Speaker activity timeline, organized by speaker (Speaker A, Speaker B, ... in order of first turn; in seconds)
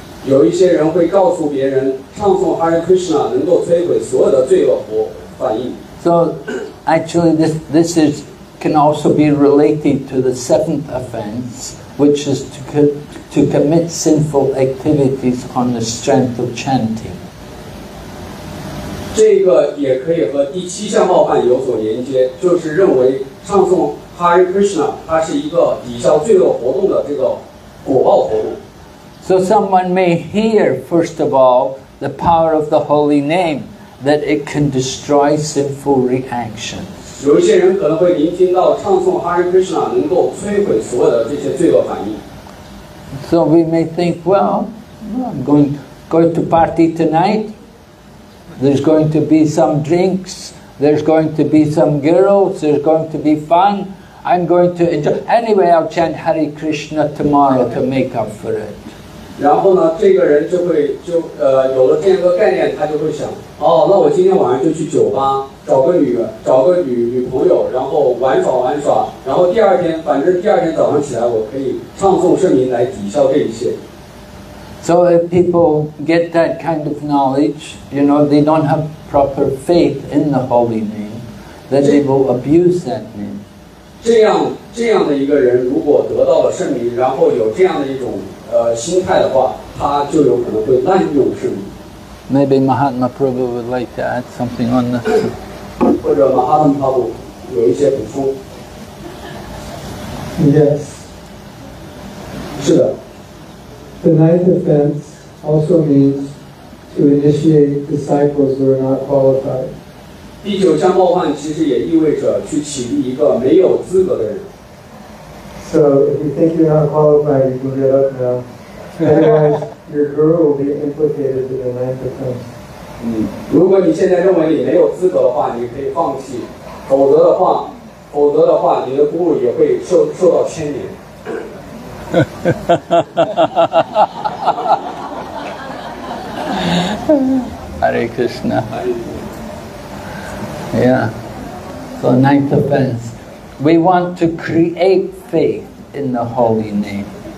Speaker A: 0.2-5.8, 19.1-28.6, 37.2-42.2, 59.4-73.8, 84.0-91.7, 96.0-98.3, 102.6-102.9, 110.4-114.5, 123.0-131.4, 138.7-139.1
Speaker B: 6.0-17.2, 29.2-37.1, 43.2-47.5, 48.6-58.9, 74.8-83.4, 92.3-95.3, 132.5-133.8, 136.5-138.7, 140.7-141.2, 142.0-147.1
Speaker C: 100.4-101.0, 104.0-106.3, 106.9-109.7, 115.6-118.4, 119.0-122.5